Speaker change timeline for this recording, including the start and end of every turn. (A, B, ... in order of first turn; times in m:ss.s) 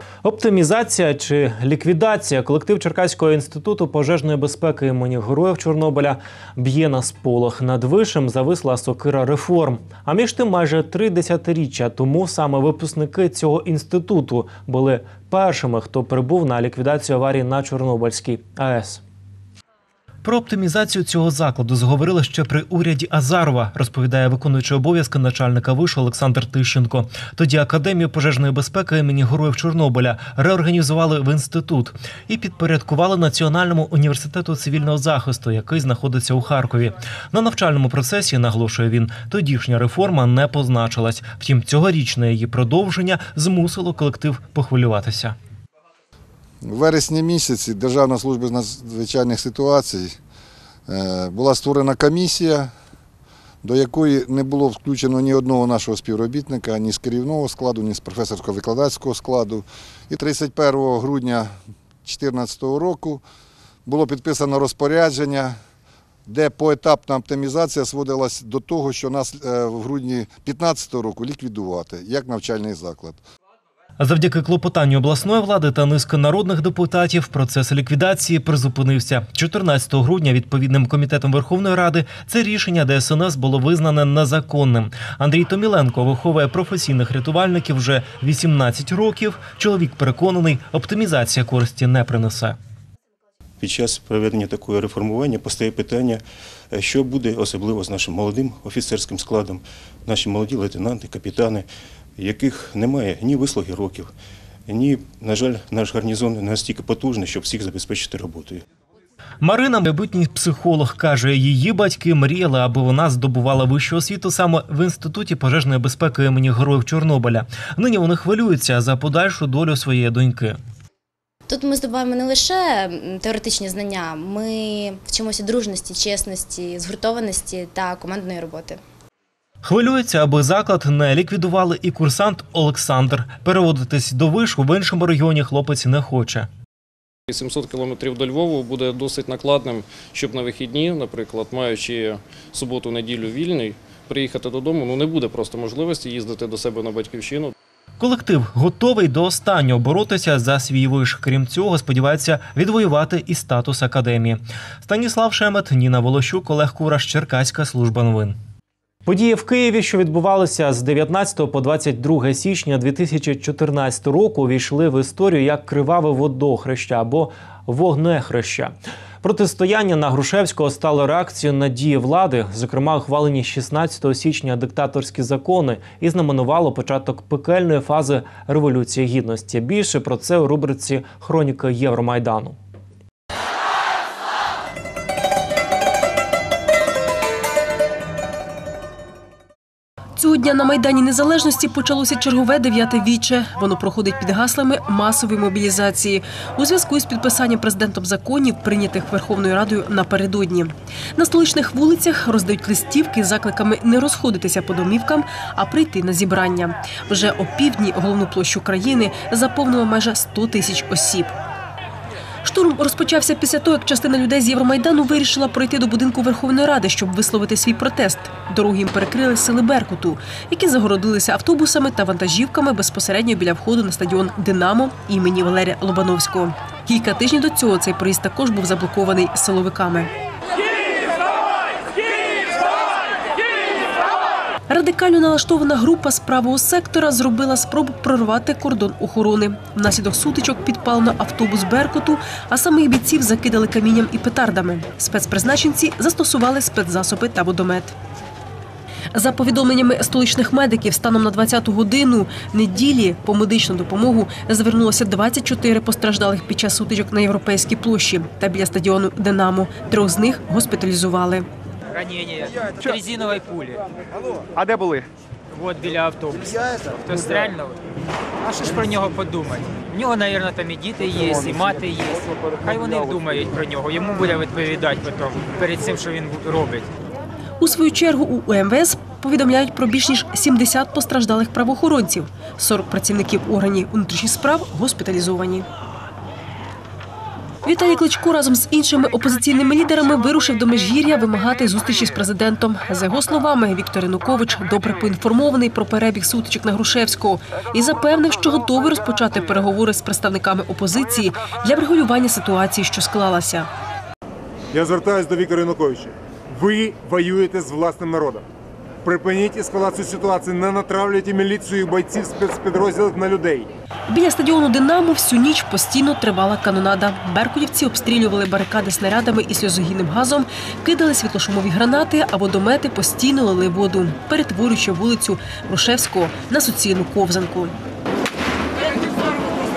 0:00.2-0:19.0 A
0:20.2-0:45.4 A
0:46.6-0:50.2 B
0:50.9-0:52.7 B
0:53.6-1:03.2 B
1:03.8-1:05.6 B
1:06.2-1:13.2 B
1:14.0-1:32.6 A
1:33.6-1:44.1 C
1:44.7-1:48.6 C
1:49.4-2:00.6 A
2:01.5-2:08.8 D
2:09.6-2:16.5 A
2:17.3-2:27.5 E
2:28.0-2:38.4 A
2:39.0-3:02.6 A
3:10.2-3:31.3 F
3:32.4-3:50.1 F
3:54.7-4:07.9 F
4:09.1-4:21.5 F
4:21.9-4:23.8 G
4:24.5-4:25.1 H
4:25.5-4:27.8 G
4:28.4-4:36.9 G
4:37.6-4:45.6 F
4:47.6-5:03.7 F
5:04.8-5:08.4 H
5:09.1-5:13.6 H
5:14.1-5:27.8 F